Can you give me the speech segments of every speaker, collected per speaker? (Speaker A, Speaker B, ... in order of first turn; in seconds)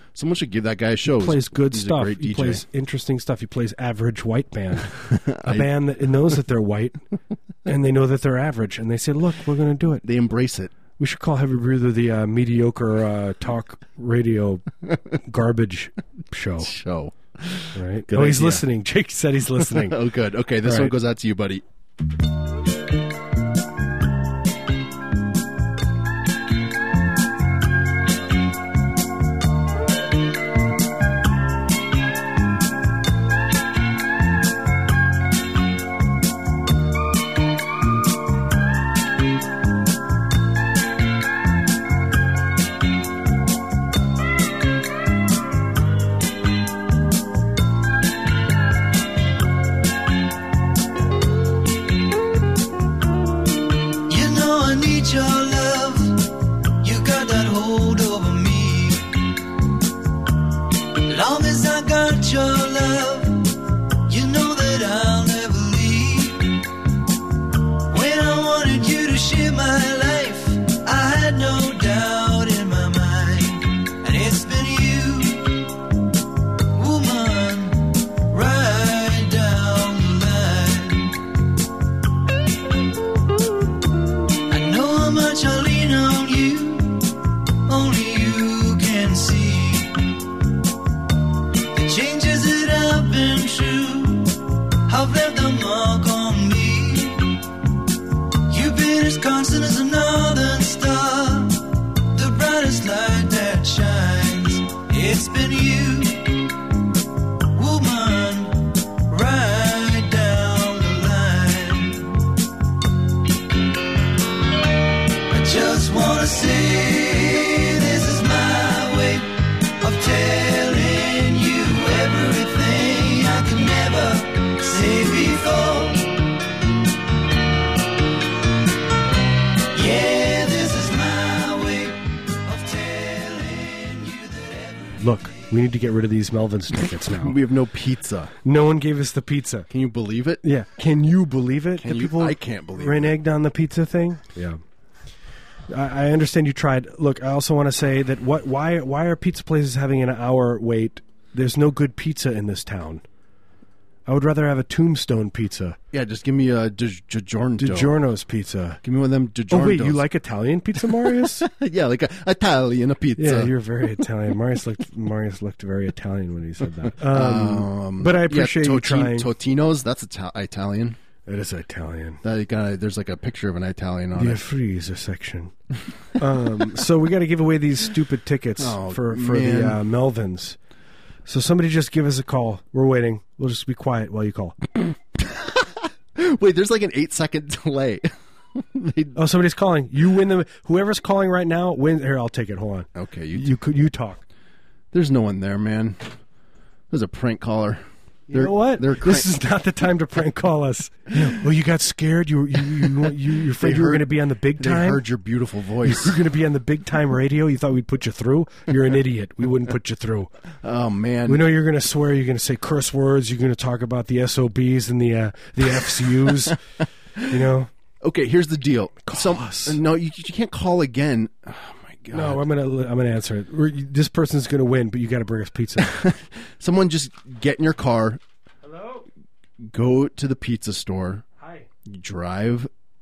Speaker A: 0.1-2.6, 5.0-5.7, 10.0-10.7, 16.6-18.6, 19.6-21.6, 137.1-138.3, 139.7-140.4, 141.8-143.2, 155.9-158.0, 158.8-160.1, 160.8-163.6, 167.0-171.0, 172.2-174.4, 178.6-179.8, 185.2-189.2, 192.9-193.6, 194.9-196.2, 196.9-199.3, 203.5-206.2, 210.6-211.5, 216.2-216.6, 218.0-222.4, 225.8-228.2, 229.6-231.2, 231.8-232.7
Speaker B: 1.1-7.0, 7.7-10.1, 11.0-16.7, 17.8-20.0, 20.6-20.9, 135.0-137.4, 138.4-139.7, 140.4-144.6, 145.7-153.0, 154.1-155.8, 157.6-158.8, 159.5-161.5, 163.2-169.3, 171.3-172.2, 174.2-175.5, 176.2-180.6, 181.3-184.6, 189.2-194.2, 198.3-205.0, 205.8-210.3, 211.3-216.6, 217.3-217.7, 219.1-219.8, 222.1-226.0, 228.6-229.1, 231.4-231.7
Speaker C: 54.1-59.4, 60.9-66.8, 67.9-75.8, 76.7-81.2, 84.5-90.2, 91.7-97.5, 98.5-106.7, 107.5-112.3, 115.3-126.4, 129.7-135.0